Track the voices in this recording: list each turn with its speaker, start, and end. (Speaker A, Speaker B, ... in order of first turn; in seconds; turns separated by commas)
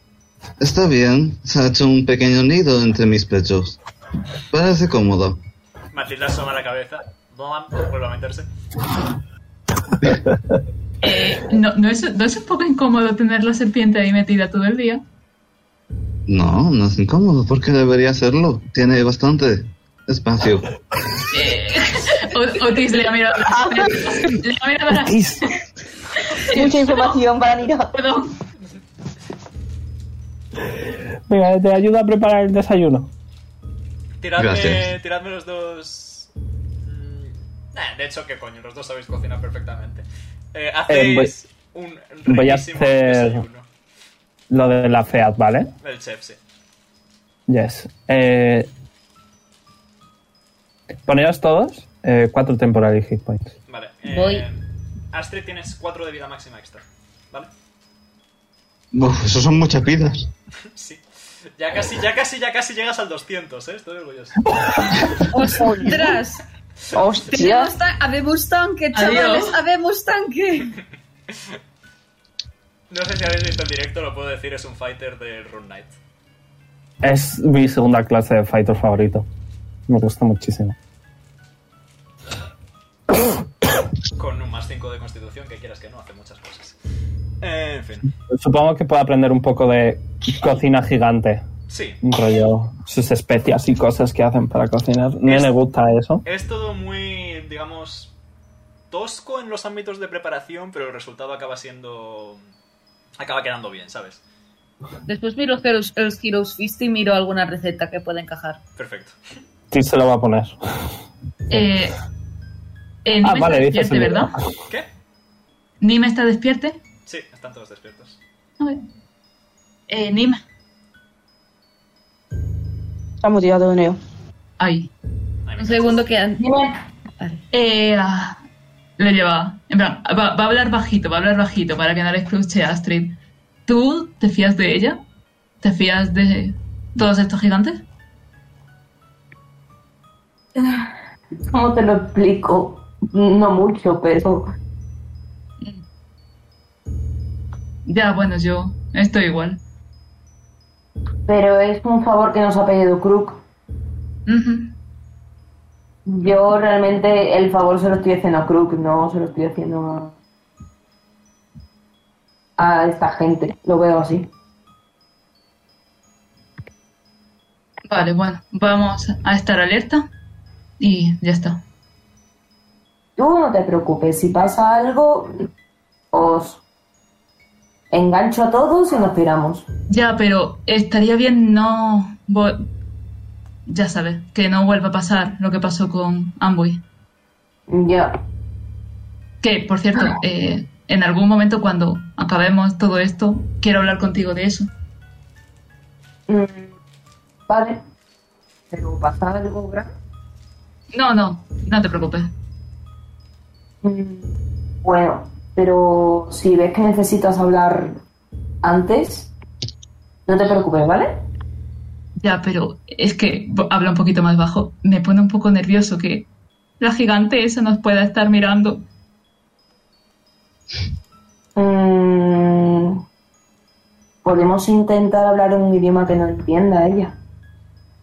Speaker A: 0.6-3.8, Speaker A: 4.5-5.4, Speaker B: 5.9-8.5, Speaker C: 11.0-15.0, Speaker A: 16.3-20.7, Speaker C: 21.3-25.5, Speaker D: 25.0-25.5, Speaker C: 26.3-27.2, Speaker E: 26.5-27.9, Speaker C: 27.9-28.3, Speaker D: 31.3-33.1, Speaker B: 34.2-36.3, Speaker A: 34.4-34.9, Speaker B: 36.8-43.7, Speaker D: 40.9-41.3, Speaker D: 42.3-43.4, Speaker D: 44.5-45.7, Speaker B: 45.8-46.4, Speaker D: 47.5-48.7, Speaker D: 51.1-53.5, Speaker B: 53.7-57.5, Speaker F: 54.1-54.5, Speaker A: 58.9-60.3, Speaker B: 60.7-61.0, Speaker B: 61.5-64.6, Speaker F: 65.3-66.4, Speaker E: 65.5-66.1, Speaker E: 66.9-67.7, Speaker F: 67.3-70.8, Speaker C: 68.9-69.6, Speaker B: 72.9-76.0, Speaker D: 77.0-79.3, Speaker D: 79.9-80.8, Speaker B: 84.2-86.8, Speaker B: 87.4-88.1, Speaker D: 88.3-91.5, Speaker B: 91.7-92.0, Speaker D: 92.0-96.2, Speaker B: 95.3-95.5, Speaker B: 96.2-98.1, Speaker B: 98.9-102.4, Speaker B: 103.2-104.2, Speaker F: 105.1-108.6, Speaker B: 108.8-109.2, Speaker D: 109.7-110.6, Speaker C: 111.5-112.0, Speaker C: 113.0-114.4, Speaker D: 113.2-114.3, Speaker C: 115.8-116.8, Speaker B: 117.1-118.2, Speaker C: 119.9-120.4, Speaker E: 123.2-124.0, Speaker C: 124.6-124.9, Speaker B: 125.5-126.1, Speaker F: 125.6-126.5, Speaker G: 126.4-126.8, Speaker C: 127.5-128.4, Speaker C: 129.0-135.0, Speaker C: 135.6-137.8, Speaker G: 141.5-144.5, Speaker C: 147.9-149.6, Speaker G: 151.3-153.4, Speaker C: 154.3-154.7, Speaker G: 156.1-160.2, Speaker G: 162.6-164.3, Speaker C: 167.9-170.1, Speaker C: 170.8-171.6, Speaker G: 173.2-175.4, Speaker G: 176.1-176.6, Speaker G: 177.9-179.7, Speaker C: 179.9-182.7, Speaker C: 183.7-186.8, Speaker G: 187.7-188.2, Speaker C: 189.4-194.7, Speaker G: 196.3-196.7, Speaker G: 197.5-197.8, Speaker G: 198.7-199.9, Speaker C: 200.9-202.3, Speaker G: 203.8-208.0, Speaker G: 208.6-209.3, Speaker G: 210.3-211.1, Speaker C: 212.2-216.3, Speaker C: 216.8-218.8, Speaker G: 221.6-223.0, Speaker G: 224.2-227.2